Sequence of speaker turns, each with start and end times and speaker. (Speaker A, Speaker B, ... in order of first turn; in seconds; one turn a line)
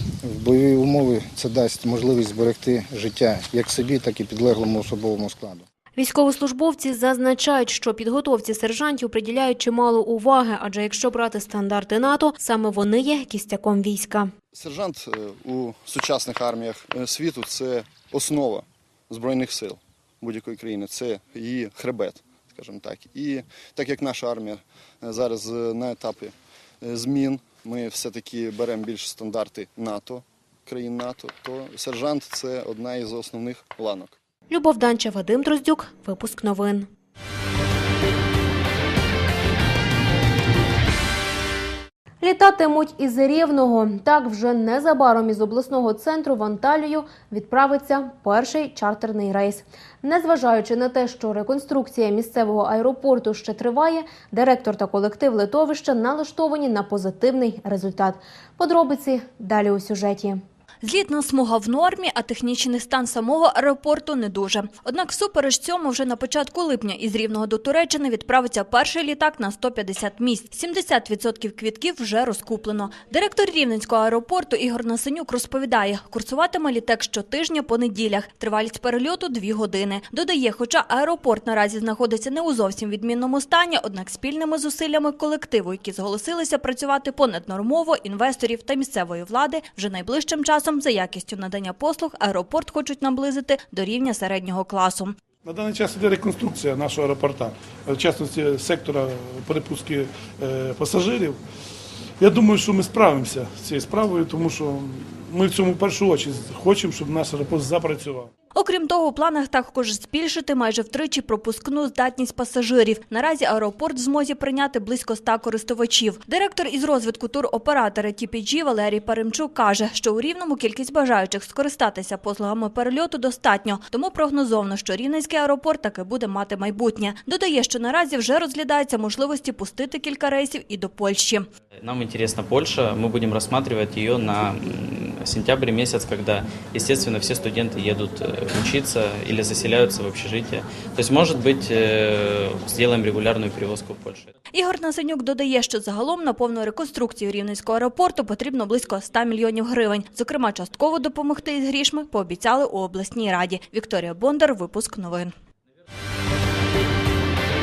Speaker A: 0.2-5.7
Speaker B: 5.9-14.3
Speaker C: 14.5-34.1
Speaker B: 34.5-36.9
Speaker B: 42.2-60.4
Speaker D: 60.8-95.2
Speaker E: 95.4-101.4
Speaker E: 102.2-108.3
Speaker D: 108.5-131.4
Speaker F: 131.8-144.3
Speaker D: 144.5-155.3